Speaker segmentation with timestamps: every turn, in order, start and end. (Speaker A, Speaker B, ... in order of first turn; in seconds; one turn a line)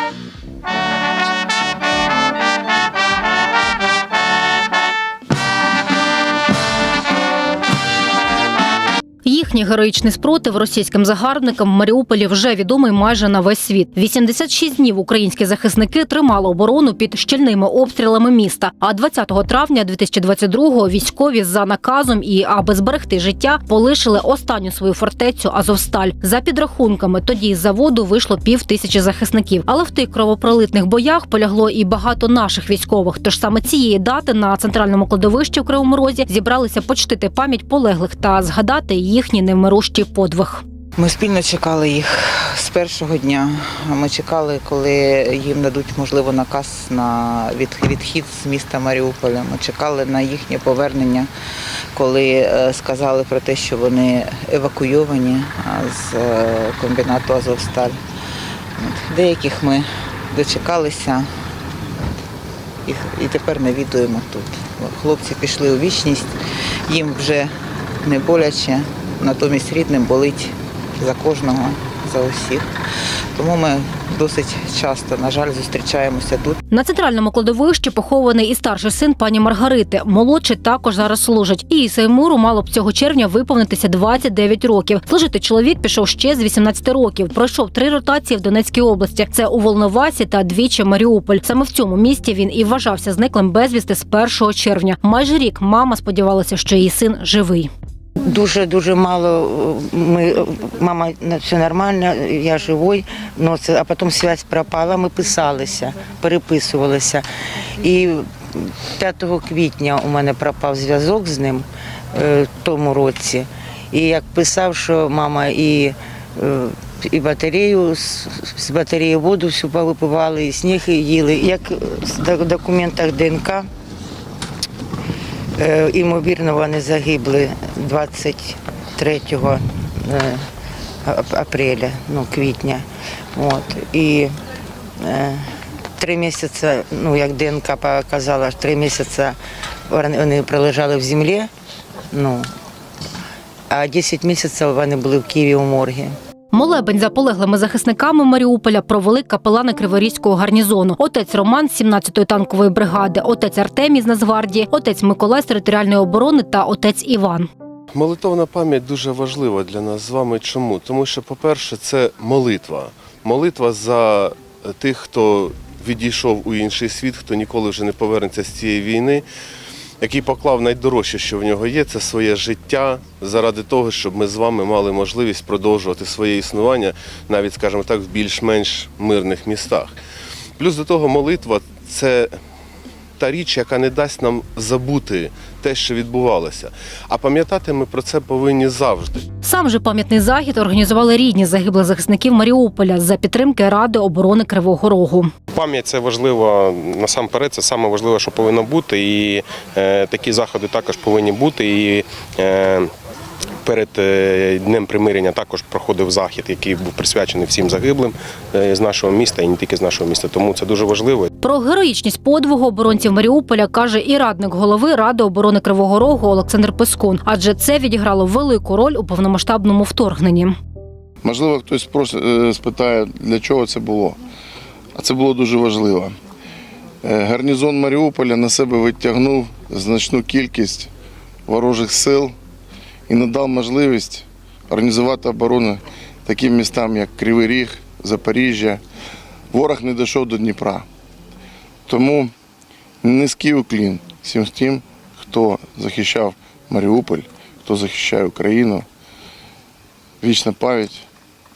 Speaker A: 9.2-40.6
Speaker B: 41.0-51.3
Speaker B: 51.9-58.0
Speaker B: 58.8-61.3
Speaker B: 62.8-66.3
Speaker B: 66.9-67.5
Speaker B: 68.0-72.7
Speaker B: 73.3-76.6
Speaker A: 76.7-97.7
Speaker C: 98.2-123.7
Speaker C: 125.6-130.4
Speaker C: 131.0-134.3
Speaker C: 135.0-135.4
Speaker C: 136.0-139.3
Speaker C: 139.9-141.5
Speaker C: 142.1-142.4
Speaker C: 143.7-146.1
Speaker A: 146.5-157.5
Speaker D: 157.9-169.2
Speaker D: 170.0-179.9
Speaker D: 180.6-182.3
Speaker D: 183.2-189.2
Speaker A: 189.4-195.3
Speaker E: 195.5-202.9
Speaker E: 203.6-211.3
Speaker A: 211.4-220.5
Speaker F: 221.2-224.2
Speaker F: 224.9-226.1
Speaker F: 227.0-230.9
Speaker F: 231.5-232.3
Speaker F: 233.1-238.8
Speaker F: 239.5-240.8
Speaker F: 241.9-242.3
Speaker F: 243.0-248.8
Speaker F: 250.2-251.1